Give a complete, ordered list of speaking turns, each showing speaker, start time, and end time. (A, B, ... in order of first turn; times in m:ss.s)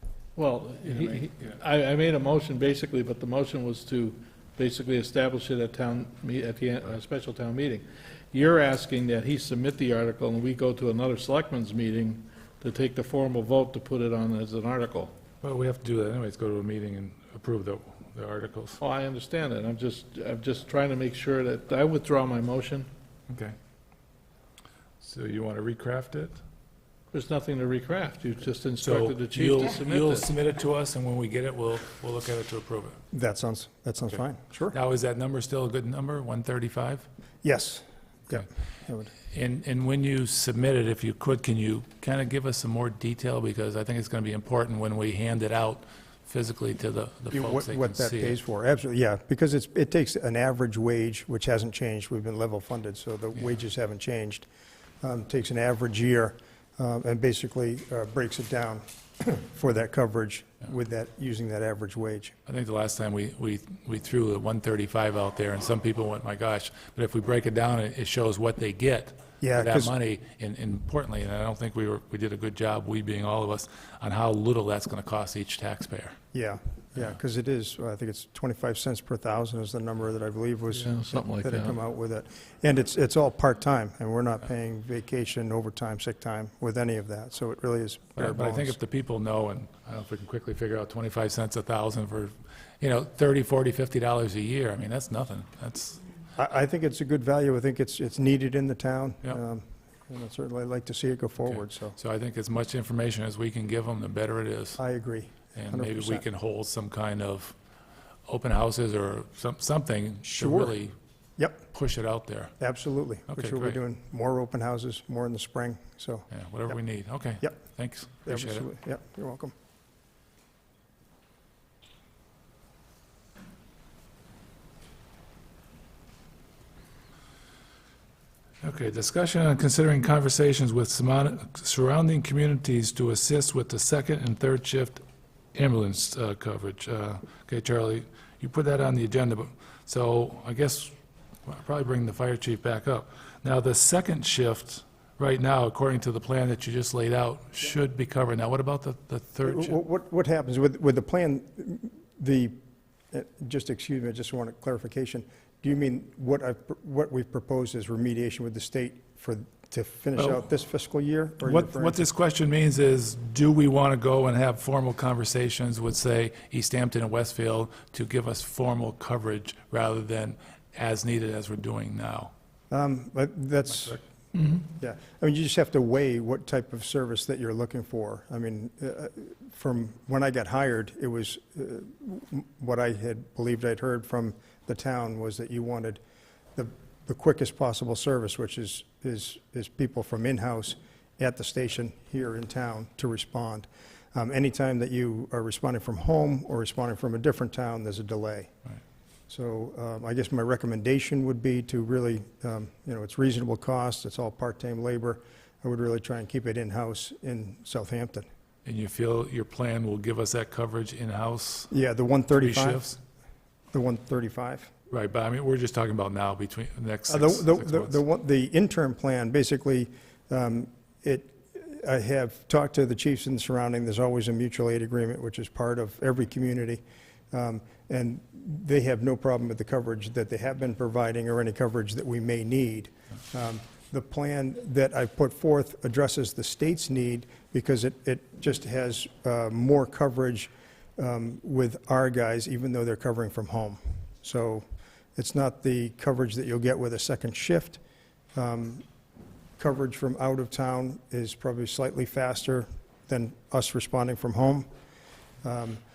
0:00.4-0:15.1 A
0:00.9-0:01.2 B
0:15.4-0:18.8 B
0:18.8-0:22.9 A
0:23.3-0:23.5 B
0:25.0-0:26.4 B
0:27.1-0:30.3 A
0:28.8-0:33.0 B
0:33.1-0:34.8 C
0:34.0-0:37.1 B
0:37.4-0:39.1 C
0:39.3-0:48.4 B
0:47.3-0:54.4 C
0:55.0-1:02.3 C
1:02.4-1:16.2 B
1:09.4-1:09.9 C
1:16.3-1:28.8 C
1:20.7-1:21.8 A
1:28.2-1:36.0 B
1:36.4-1:42.0 C
1:41.4-1:44.8 B
1:44.8-1:46.2 C
1:45.5-1:47.5 B
1:48.3-1:50.9 B
1:50.2-1:50.8 C
1:51.4-1:51.6 C
1:51.7-1:52.5 B
1:52.6-1:56.8 C
1:53.3-1:53.8 B
1:56.3-1:58.7 B
1:58.2-1:59.5 C
2:08.6-2:15.0 B
2:15.5-2:20.9 B
2:21.4-2:29.8 B
2:29.4-2:32.5 C
2:33.1-2:42.0 C
2:40.2-2:40.5 B
2:41.4-2:52.3 B
2:52.7-2:54.0 C
2:53.7-2:54.0 B
2:54.6-3:06.0 C
3:06.6-3:18.5 C
3:19.3-3:28.2 C
3:28.6-3:31.7 B
3:31.7-3:32.9 C
3:32.3-3:33.0 B
3:33.7-3:34.7 C
3:34.9-3:38.0 B
3:37.1-4:04.6 C
4:05.2-4:07.8 C
4:08.3-4:08.8 C
4:09.6-4:14.6 C
4:15.4-4:15.8 C